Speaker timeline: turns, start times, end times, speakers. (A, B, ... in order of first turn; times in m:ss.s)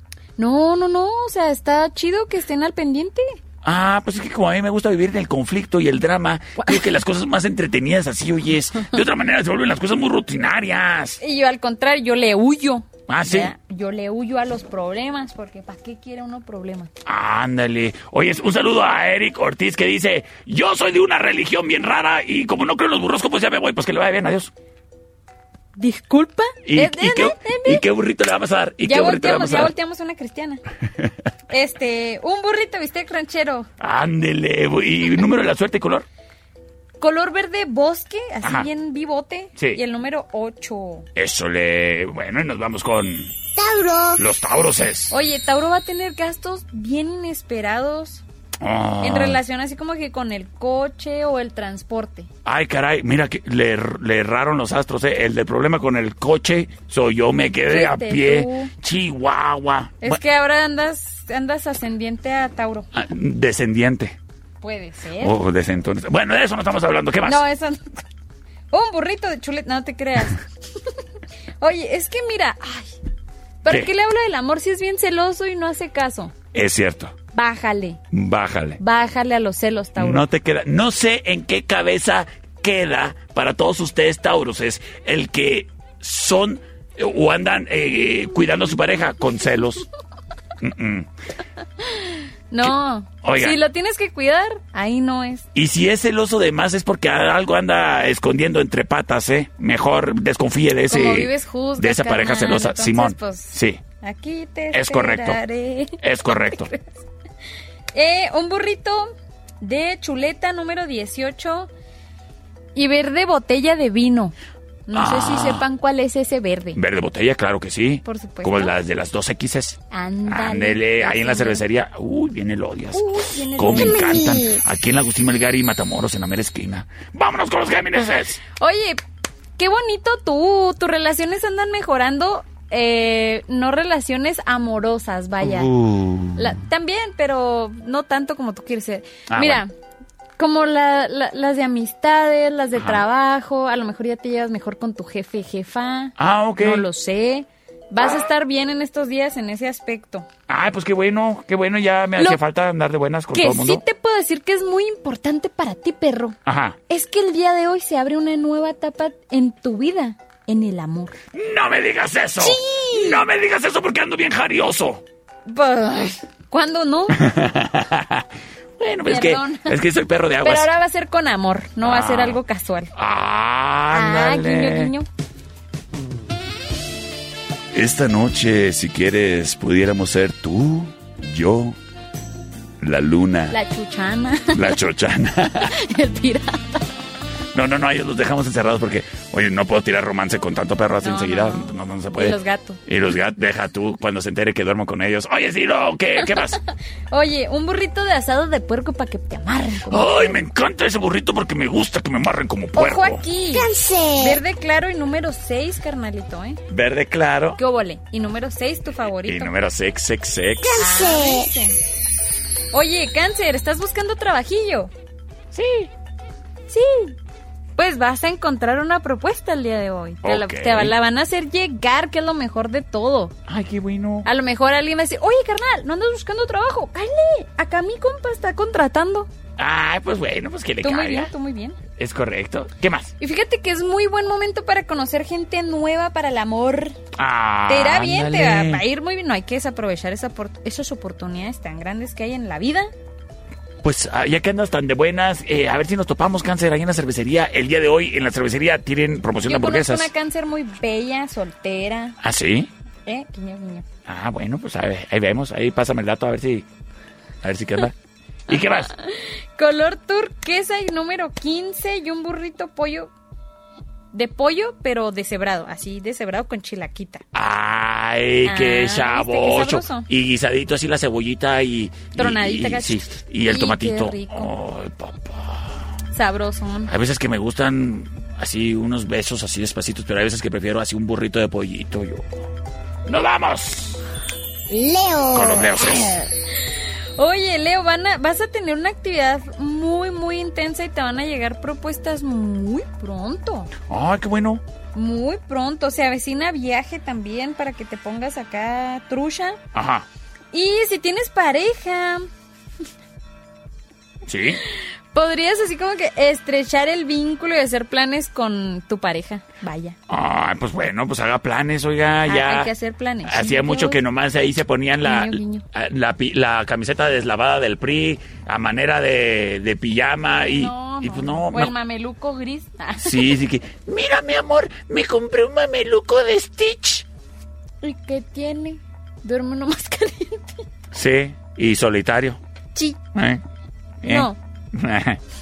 0:00.4-0:03.4 A
0:03.6-0:11.2 B
0:11.2-0:16.9 A
0:13.1-0:13.5 B
0:17.0-0:24.5 B
0:25.8-0:27.8 A
0:26.6-0:29.7 B
0:28.8-0:30.6 A
0:31.5-0:33.7 A
0:33.8-0:36.1 B
0:37.0-0:41.1 A
0:38.4-0:38.7 B
0:41.2-0:43.3 B
0:43.6-0:44.2 C
0:44.2-0:45.1 B
0:45.1-0:48.2 A
0:48.6-0:49.4 B
0:49.0-0:52.3 A
0:52.4-1:00.2 B
0:57.7-0:58.7 A
1:00.0-1:02.9 A
1:02.9-1:04.2 B
1:04.6-1:05.4 A
1:05.2-1:07.4 B
1:07.2-1:08.0 A
1:08.7-1:11.0 A
1:11.6-1:12.9 A
1:13.6-1:13.9 B
1:13.6-1:16.3 A
1:16.5-1:17.1 B
1:17.3-1:18.0 A
1:18.1-1:18.8 B
1:18.8-1:20.3 A
1:20.0-1:29.9 B
1:30.6-1:31.1 B
1:31.8-1:35.5 A
1:32.6-1:33.6 B
1:35.6-1:43.8 B
1:40.9-1:46.9 A
1:44.7-1:45.4 B
1:46.0-1:46.7 B
1:47.9-1:49.1 A
1:49.6-1:51.7 A
1:52.8-1:54.3 A
1:54.9-1:56.8 A
1:54.9-1:55.6 B
1:56.8-2:08.4 B
1:58.0-1:58.8 A
1:59.9-2:01.6 A
2:02.9-2:04.4 A
2:03.6-2:04.6 C
2:08.6-2:09.0 A
2:09.6-2:15.8 A
2:15.4-2:16.6 B
2:16.4-2:19.7 A
2:19.3-2:19.6 B
2:20.4-2:30.3 A
2:22.7-2:23.0 B
2:26.2-2:26.9 B
2:30.5-2:33.8 B
2:33.3-2:36.4 A
2:36.5-2:36.8 B
2:36.9-2:41.2 A
2:41.3-2:45.0 B
2:42.4-2:43.2 A
2:45.5-2:47.2 A
2:47.1-2:48.3 B
2:48.8-2:50.7 B
2:48.9-2:49.8 A
2:50.4-2:52.9 A
2:51.8-2:52.4 B
2:53.0-2:54.9 B
2:53.9-2:55.1 A
2:57.7-3:01.8 B
3:02.8-3:03.6 B
3:03.5-3:04.8 A
3:04.5-3:05.8 B
3:05.4-3:06.8 A
3:07.5-3:16.6 B
3:11.0-3:12.8 A
3:17.1-3:20.4 A
3:19.9-3:23.2 B
3:22.8-3:26.6 A
3:23.5-3:24.4 C
3:26.7-3:27.6 B
3:27.6-3:29.5 A
3:29.2-3:31.0 B
3:30.6-3:31.5 C
3:30.8-3:31.8 A
3:32.7-3:34.9 A
3:35.5-3:35.9 B
3:36.7-3:37.2 A
3:37.8-3:43.4 A
3:40.2-3:41.0 B
3:43.5-3:44.3 B
3:44.2-3:49.3 A
3:49.6-3:51.3 B
3:50.8-3:51.8 A
3:52.0-3:53.1 B
3:53.2-3:57.0 A
3:57.2-3:58.8 B
3:57.7-4:02.9 A
4:03.8-4:10.1 B
4:09.4-4:12.2 A
4:12.2-4:12.7 B
4:13.0-4:13.8 A
4:14.1-4:16.7 B
4:17.4-4:17.9 B
4:18.5-4:18.9 B
4:18.8-4:23.1 A
4:24.1-4:27.2 A
4:27.3-4:35.6 B
4:28.4-4:30.1 A
4:32.2-4:34.5 A
4:36.1-4:36.9 A
4:36.9-4:42.2 B
4:43.0-4:44.0 B
4:44.7-4:46.3 C
4:45.3-4:46.2 B
4:46.6-4:53.7 A
4:53.9-4:54.6 B
4:54.9-4:59.6 A
4:59.7-5:00.1 B
5:00.5-5:02.2 A
5:04.3-5:04.6 B
5:04.6-5:10.0 A
5:10.1-5:12.7 B
5:12.2-5:14.0 A
5:13.2-5:21.7 B
5:15.0-5:15.7 A
5:20.4-5:23.4 A
5:23.0-5:27.0 B
5:27.8-5:30.6 A
5:30.9-5:32.4 B
5:32.7-5:33.0 A
5:33.1-5:33.4 B
5:34.0-5:35.2 B
5:34.0-5:34.4 A